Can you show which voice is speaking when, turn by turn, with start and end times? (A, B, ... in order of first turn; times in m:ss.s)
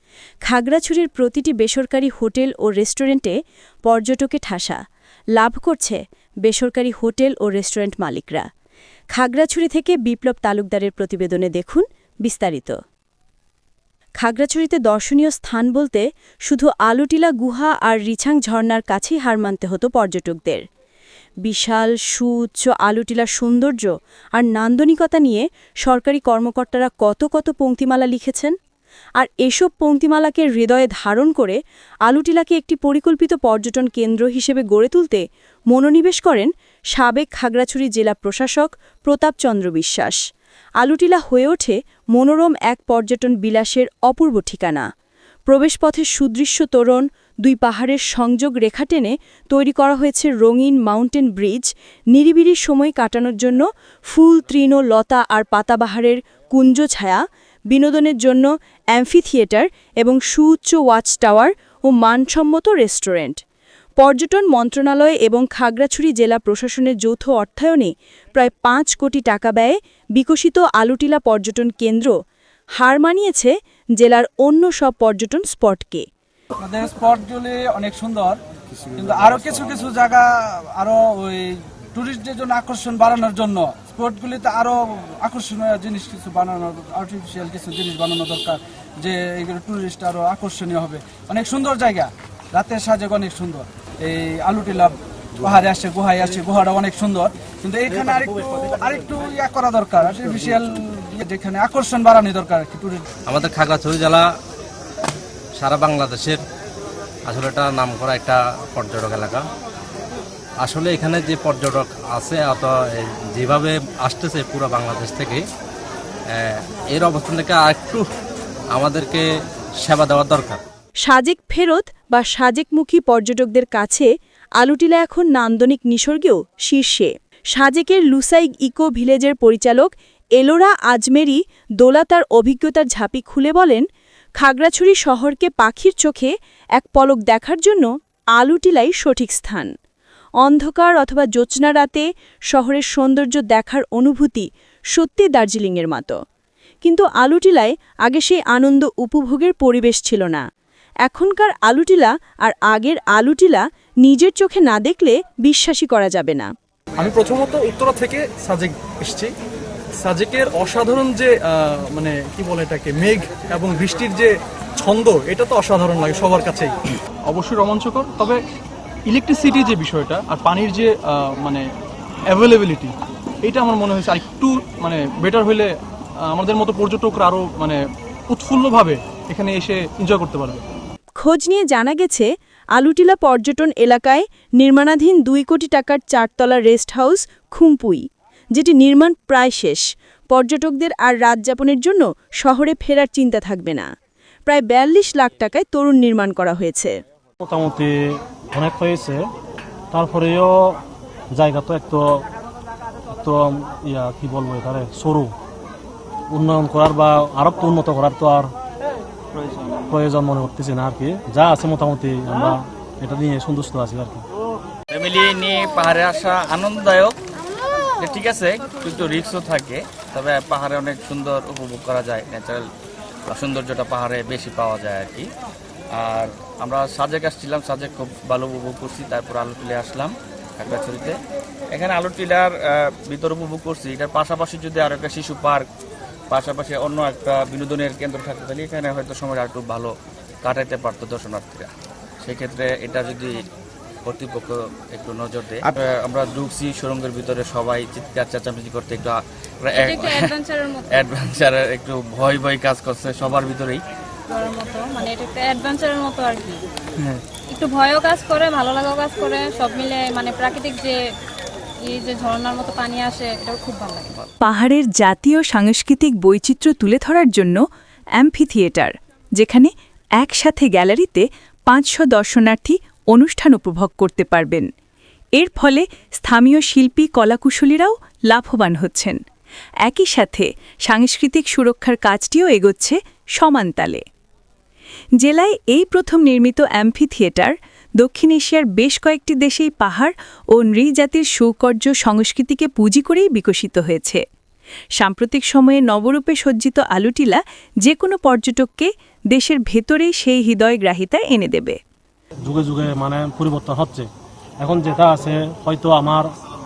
0:00.5-0:04.8 A
0:05.4-0:08.5 A
0:09.1-0:12.8 A
0:14.2-0:20.6 A
0:21.4-0:28.5 A
0:29.2-0:40.2 A
0:40.8-0:44.9 A
0:45.5-1:03.4 A
1:04.0-1:12.1 A
1:12.8-1:16.0 A
1:16.6-1:18.4 B
1:18.9-1:43.0 B
1:43.3-1:44.3 C
1:45.6-1:46.4 C
1:47.3-1:49.4 C
1:50.6-1:55.4 C
1:56.3-1:58.0 C
1:58.7-1:59.2 C
1:59.8-2:00.6 C
2:01.0-2:13.8 A
2:14.4-2:19.7 A
2:20.4-2:26.2 A
2:26.8-2:30.4 A
2:31.0-2:36.5 A
2:37.0-2:39.3 D
2:40.0-2:46.7 D
2:47.3-2:48.4 D
2:49.0-2:51.6 D
2:52.3-2:52.9 D
2:53.4-2:55.7 D
2:56.3-3:00.6 D
3:01.2-3:08.0 A
3:08.5-3:13.9 A
3:14.5-3:16.9 A
3:17.4-3:19.2 E
3:19.9-3:20.8 E
3:21.3-3:22.2 E
3:23.1-3:25.3 E
3:26.3-3:28.5 E
3:29.9-3:34.2 E
3:34.9-3:37.2 F
3:38.0-3:42.6 F
3:43.3-3:45.3 F
3:45.9-3:51.2 F
3:51.7-3:55.6 F
3:56.3-3:59.9 F
4:00.4-4:01.7 F
4:02.2-4:03.3 F
4:04.0-4:10.3 F
4:09.7-4:11.1 G
4:10.9-4:13.8 F
4:14.3-4:16.6 G
4:17.5-4:21.0 G
4:21.8-4:24.2 G
4:24.4-4:27.6 H
4:28.2-4:29.6 H
4:30.2-4:31.2 H
4:31.7-4:34.6 H
4:35.4-4:39.2 H
4:39.9-4:44.0 H
4:45.2-4:47.5 H
4:48.0-4:54.2 H
4:55.0-4:57.4 H
4:57.9-5:01.7 H
5:02.4-5:04.1 E
5:04.6-5:06.3 E